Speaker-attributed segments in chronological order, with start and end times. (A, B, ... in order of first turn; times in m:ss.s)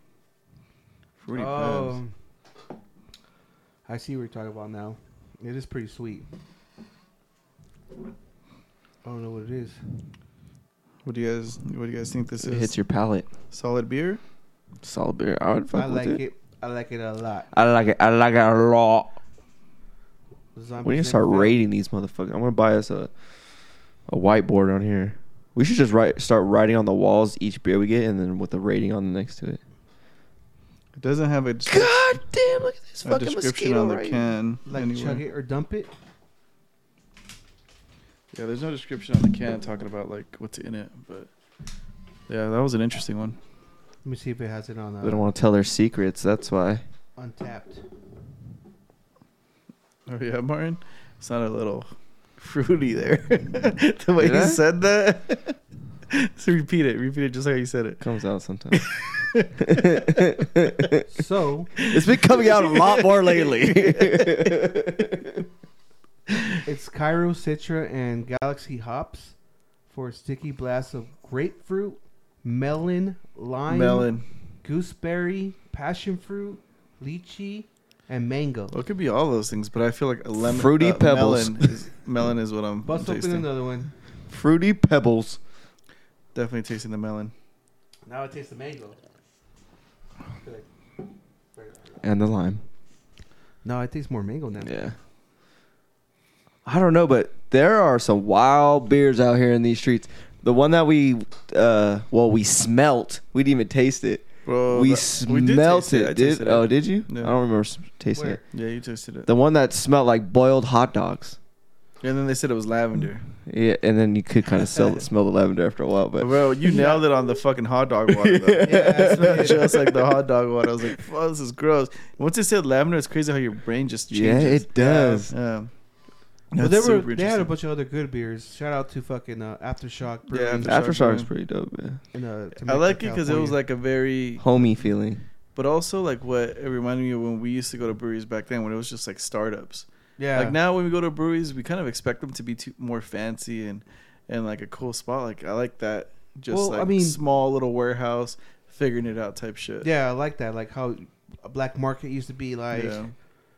0:01.2-0:02.0 A
0:01.3-0:02.1 B
0:03.8-0:06.3 B
0:09.0-0:09.8 B
0:11.0-0:12.7 A
0:12.4-0:13.3 C
0:13.5-0:14.2 A
0:14.8-0:16.2 C
0:15.7-0:17.5 B
0:17.5-0:19.2 C
0:20.5-0:21.6 B
0:20.8-0:23.1 C
0:24.1-0:29.6 C
0:31.0-0:32.2 A
0:31.7-0:34.3 C
0:33.0-0:35.2 A
0:34.7-0:35.9 B
0:38.3-0:41.3 A
0:42.3-0:43.4 A
0:44.0-0:45.2 B
0:45.0-0:46.8 C
0:47.2-0:47.8 B
0:50.1-0:55.6 A
0:54.2-0:54.6 C
0:56.1-0:58.0 A
0:58.0-0:58.9 C
0:58.7-1:01.0 A
0:59.5-1:01.0 C
1:01.1-1:01.7 B
1:01.8-1:04.7 A
1:01.9-1:05.4 C
1:06.3-1:06.6 A
1:06.6-1:09.3 B
1:09.9-1:14.1 B
1:13.7-1:14.2 A
1:14.6-1:18.7 B
1:18.7-1:23.5 A
1:20.4-1:21.7 C
1:22.8-1:23.9 B
1:24.3-1:25.4 C
1:26.3-1:27.3 A
1:28.0-1:29.0 B
1:30.3-1:30.6 B
1:31.5-1:32.0 B
1:32.0-1:32.6 C
1:33.6-1:34.8 B
1:34.6-1:35.0 C
1:36.6-1:48.4 C
1:44.4-1:47.3 A
1:48.1-1:48.4 B
1:48.5-1:49.3 A
1:49.3-1:51.4 C
1:52.0-1:53.2 A
1:53.5-1:56.4 C
1:56.2-2:05.7 A
1:56.6-1:57.0 B
1:58.1-2:00.0 C
1:58.6-1:59.7 B
2:04.1-2:05.3 C
2:04.7-2:05.3 B
2:06.5-2:07.5 A
2:06.6-2:10.8 B
2:10.3-2:11.3 A
2:10.6-2:12.0 C
2:12.1-2:13.6 B
2:12.6-2:14.6 A
2:14.4-2:15.2 C
2:15.5-2:29.9 A
2:20.2-2:20.6 B
2:26.5-2:27.2 B
2:29.8-2:33.1 B
2:32.7-2:33.1 A